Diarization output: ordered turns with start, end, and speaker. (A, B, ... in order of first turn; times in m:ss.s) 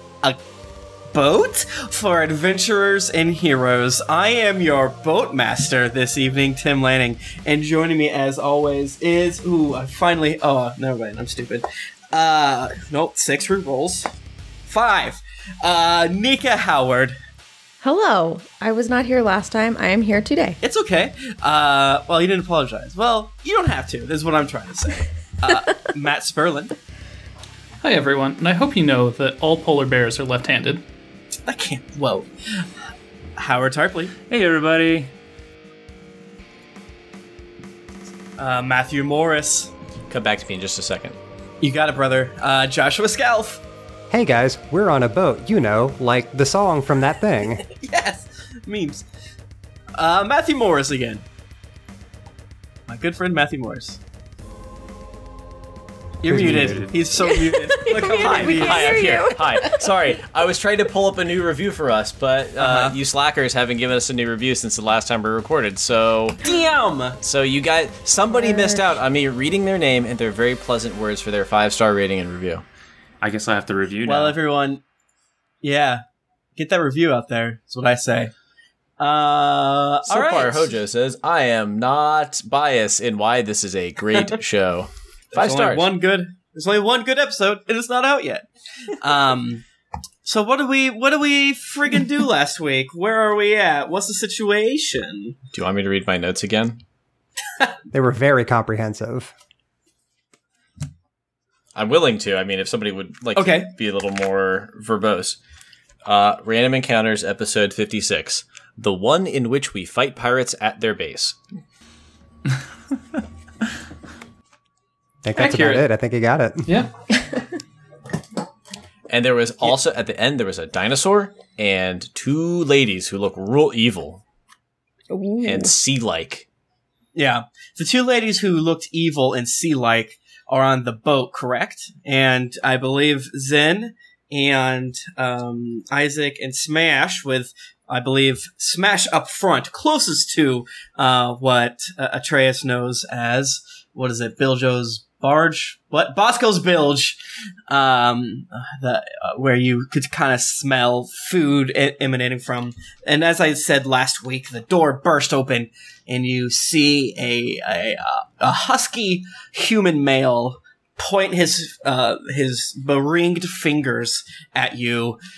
0:01.1-0:14.1 A
0:14.7-0:17.2 A
0:17.8-0:20.6 B
0:20.6-0:26.8 A
0:27.8-0:30.8 C
0:31.5-0:32.6 A
0:33.4-0:34.1 A
0:34.2-0:35.1 D
0:38.4-0:39.7 A
0:40.1-0:41.2 E
0:41.6-0:43.6 A
0:44.1-0:47.6 F
0:47.6-0:49.0 A
0:50.0-0:51.2 A
0:52.9-0:54.0 A
0:56.2-0:59.0 A
0:56.3-0:57.0 D
0:56.3-0:56.9 F
0:57.2-0:59.9 B
0:58.1-1:06.4 E
1:02.6-1:03.0 A
1:06.4-1:07.2 A
1:07.2-1:12.6 E
1:08.3-1:08.8 B
1:13.2-1:14.4 D
1:14.0-1:14.8 A
1:15.6-1:16.0 A
1:16.6-1:18.3 A
1:19.0-1:20.7 A
1:20.0-1:25.9 E
1:25.3-1:29.6 A
1:30.2-1:35.4 A
1:35.5-1:36.8 E
1:37.9-1:39.3 F
1:41.7-1:45.4 E
1:43.4-1:43.7 A
1:46.0-1:51.4 E
1:55.2-1:56.8 F
1:55.4-1:55.8 C
1:56.6-1:56.9 C
1:59.1-2:04.2 E
2:05.1-2:05.7 B
2:05.4-2:06.4 E
2:07.1-2:27.2 A
2:27.7-2:45.2 A